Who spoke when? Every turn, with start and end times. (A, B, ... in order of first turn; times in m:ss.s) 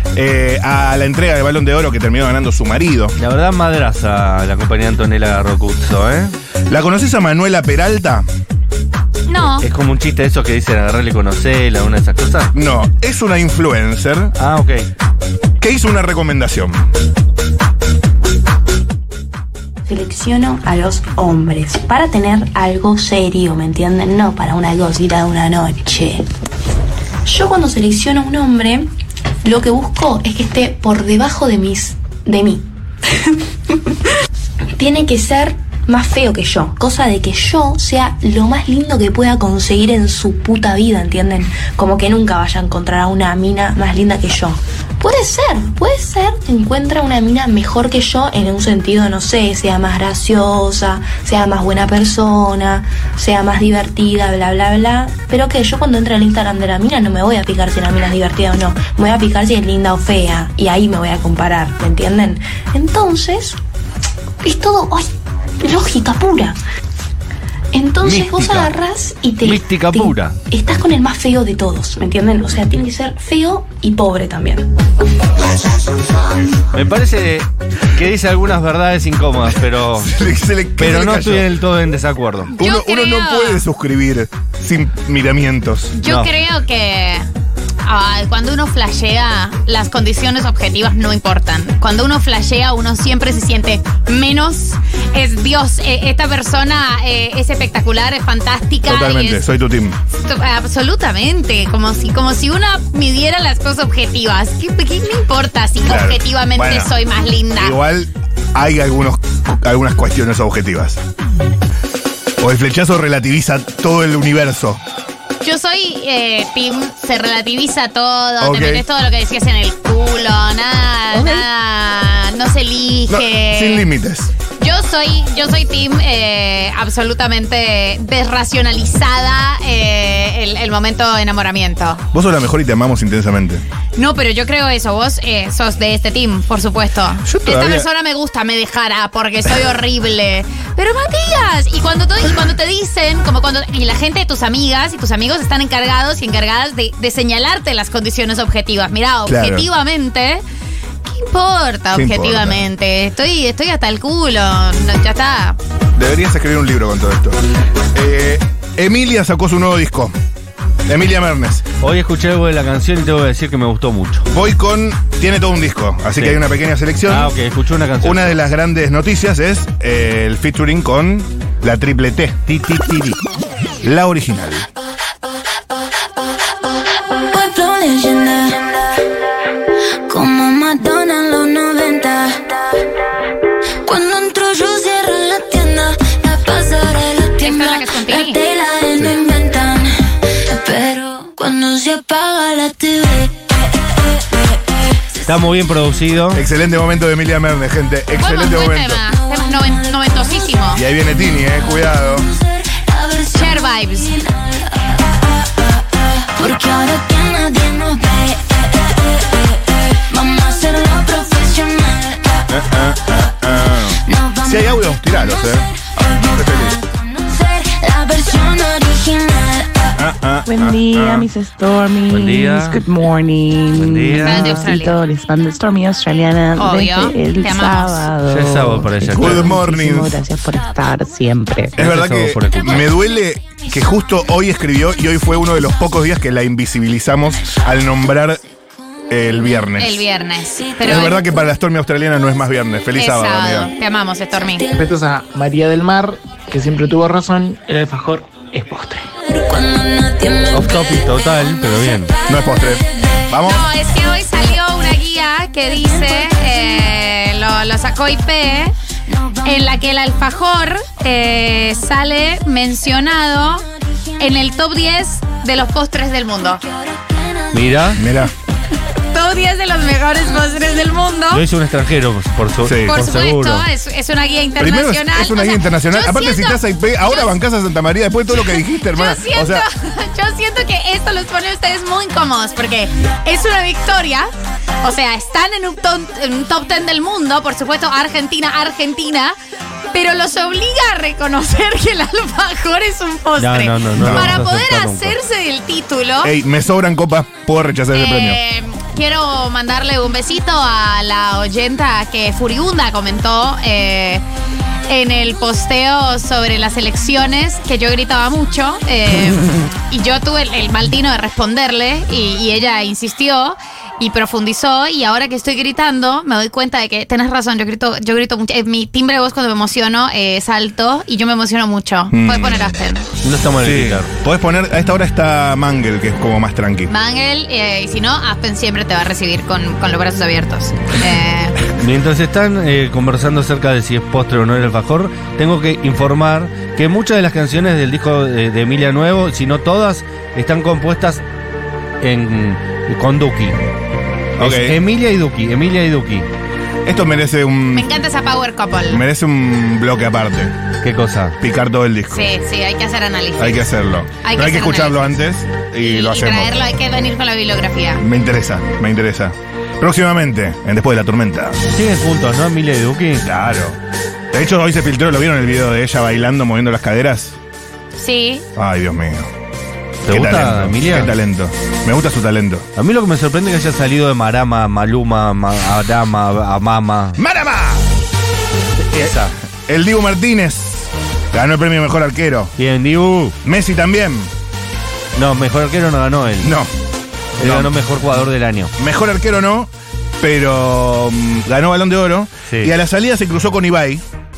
0:00.1-0:03.2 A
0:03.2-0:06.3 B
0:06.7-0:08.2 A
0:09.3-0:09.6 C
0:09.6-0:12.5 B
0:12.5-0:14.3 A
0:14.4-0:14.9 B
0:15.6-0:16.9 A
0:19.8-0:26.2 D
0:27.2-0:28.9 D
0:29.4-0:32.6 D
0:34.8-1:03.6 D
1:04.4-1:05.1 D
1:05.6-1:06.6 D
1:07.7-1:14.7 D
1:08.0-1:08.7 B
1:09.4-1:10.4 B
1:16.7-1:20.1 B
1:19.9-1:21.5 A
1:20.8-1:22.5 B
1:22.6-1:23.6 C
1:22.6-1:26.0 A
1:25.9-1:27.3 C
1:26.0-1:26.3 B
1:27.8-1:39.4 C
1:38.8-1:40.0 A
1:40.2-1:47.8 C
1:45.8-1:46.9 A
1:47.6-1:51.0 A
1:52.4-1:54.8 A
1:55.4-2:03.9 C
1:58.4-1:58.8 A
2:03.1-2:04.3 A
2:04.6-2:12.0 C
2:12.1-2:13.6 A
2:14.0-2:30.4 C
2:17.2-2:17.9 A
2:29.2-2:29.6 A
2:31.0-2:35.6 C
2:31.9-2:32.6 A
2:36.0-2:37.4 A
2:37.9-2:40.1 A
2:40.9-2:41.7 A
2:41.8-2:44.3 B
2:44.3-2:47.3 A
2:46.2-2:46.4 B
2:47.1-2:48.4 B
2:48.0-2:52.4 A
2:52.5-2:53.2 B
2:53.8-2:54.7 A
2:57.3-2:58.9 E
3:00.1-3:02.5 E
3:03.8-3:13.6 E
3:07.4-3:08.4 C
3:15.3-3:16.4 B
3:16.3-3:19.0 A
3:18.2-3:20.8 C
3:19.1-3:20.5 E
3:20.7-3:22.3 A
3:21.2-3:25.2 E
3:23.3-3:24.1 C
3:26.3-3:32.4 E
3:32.5-3:35.6 A
3:34.0-3:39.9 E
3:36.3-3:36.8 A
3:40.0-3:41.3 A
3:40.4-3:51.7 F
3:42.1-3:42.8 B
3:43.7-3:44.7 B
3:44.2-3:45.0 C
3:46.6-3:48.1 C
3:48.2-3:49.6 B
3:49.2-3:50.2 A
3:51.8-3:52.9 B
3:51.8-3:58.4 A
3:59.1-4:00.0 A
3:59.8-4:01.2 C
4:00.6-4:01.0 E
4:00.8-4:03.7 A
4:03.0-4:04.7 C
4:04.4-4:04.7 E
4:04.7-4:09.1 G
4:09.2-4:13.2 E
4:10.5-4:12.1 B
4:12.3-4:13.6 A
4:13.4-4:18.7 C
4:15.8-4:16.7 E
4:19.2-4:19.7 E
4:19.4-4:23.6 C
4:24.2-4:26.6 C
4:26.7-4:27.8 E
4:27.5-4:28.0 B
4:28.0-4:28.3 A
4:29.1-4:31.4 C
4:31.3-4:33.6 B
4:32.6-4:33.0 A
4:32.9-4:37.3 C
4:34.6-4:39.6 A
4:38.3-4:44.3 C
4:44.8-4:49.3 C
4:49.9-4:56.3 C
4:53.4-4:55.2 B
4:54.0-4:54.4 A
4:56.2-4:58.4 A
4:57.9-5:04.2 C
5:04.9-5:23.0 C
5:22.1-5:22.7 A
5:23.2-5:24.1 B
5:23.6-5:26.9 A
5:26.9-5:31.6 C
5:31.8-5:41.2 B
5:42.0-5:43.6 B
5:44.4-5:44.8 A
5:44.4-5:46.3 B
5:46.8-5:47.9 A
5:47.7-5:49.0 C
5:48.9-5:50.5 A
5:50.8-5:51.4 B
5:51.4-5:52.3 A
5:52.1-5:53.7 C
5:53.4-5:56.5 A
5:54.2-5:55.2 C
5:55.8-5:58.0 C
5:58.0-6:01.6 A
6:01.7-6:03.2 B
6:03.2-6:03.8 A
6:04.3-6:07.4 A
6:08.0-6:08.4 C
6:08.6-6:09.3 A
6:10.0-6:11.1 B
6:10.1-6:12.7 A
6:12.8-6:17.2 B
6:17.2-6:17.8 A
6:18.9-6:19.3 B
6:19.0-6:22.5 A
6:22.6-6:23.4 B
6:23.4-6:24.3 A
6:25.2-6:26.5 B
6:26.4-6:26.7 A
6:27.4-6:28.7 B
6:27.4-6:27.7 A
6:28.8-6:34.0 A